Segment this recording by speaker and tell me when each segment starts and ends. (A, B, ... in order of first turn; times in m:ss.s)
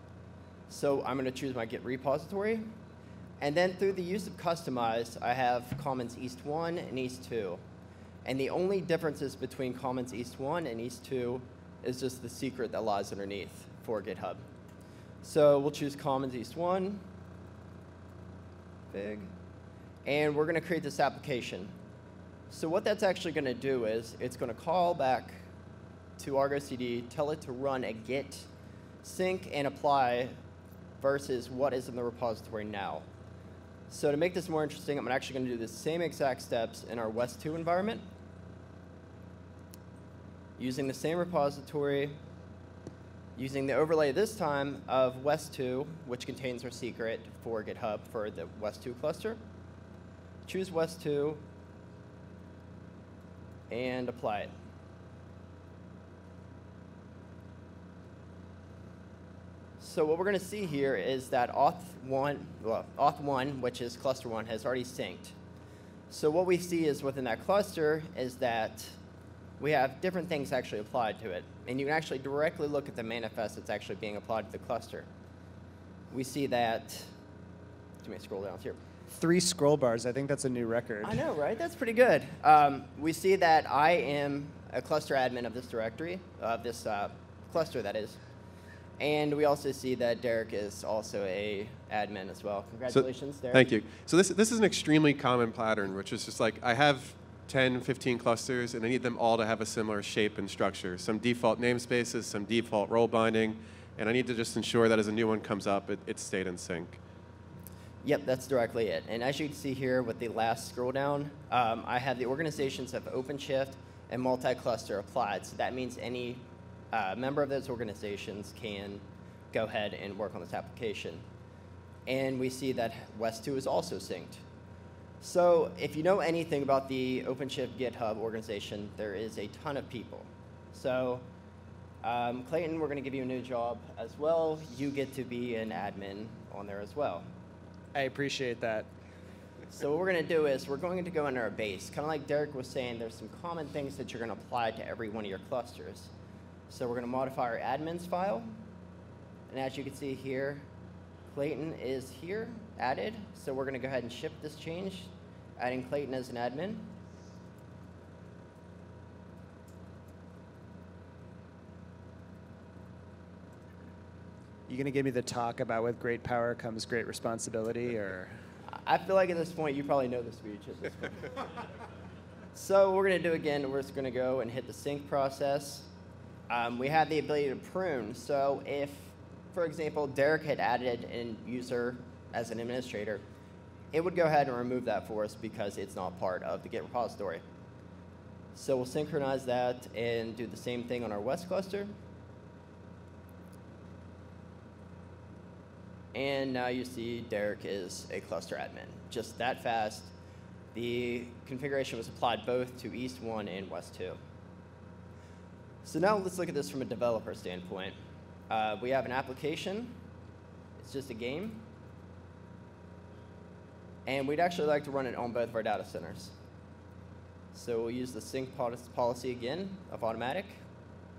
0:00.7-0:02.7 A
0:03.4-0:07.6 A
0:08.2-0:14.4 A
0:15.2-0:17.1 A
0:18.9-0:19.3 A
0:20.0-0:21.7 A
0:22.5-0:25.4 A
0:26.2-0:28.5 A
0:29.0-0:30.3 A
0:31.0-0:33.1 A
0:33.9-0:38.0 A
0:40.6-0:42.2 A
0:43.4-0:49.4 A
0:50.4-0:51.4 A
0:53.7-0:54.5 A
0:59.8-1:05.3 A
1:06.1-1:08.9 A
1:09.6-1:15.1 A
1:16.1-1:17.1 A
1:18.0-1:18.8 A
1:19.1-1:21.2 B
1:21.0-1:28.2 A
1:29.0-1:33.7 A
1:32.9-1:47.0 C
1:48.0-2:01.2 A
2:02.0-2:04.4 A
2:05.2-2:11.2 A
2:12.0-2:17.3 A
2:17.9-2:18.9 B
2:19.7-2:26.1 A
2:26.7-2:28.5 A
2:29.5-2:30.6 A
2:31.3-2:36.9 A
2:44.7-2:48.4 B
2:48.7-2:51.3 A
2:52.5-2:55.9 A
2:56.5-3:03.2 A
3:03.9-3:07.4 A
3:08.5-3:11.9 A
3:16.1-3:20.1 A
3:20.7-3:24.2 A
3:25.8-3:28.0 A
3:28.5-3:30.0 A
3:30.8-3:31.7 A
3:34.0-3:36.3 A
3:37.5-3:40.6 A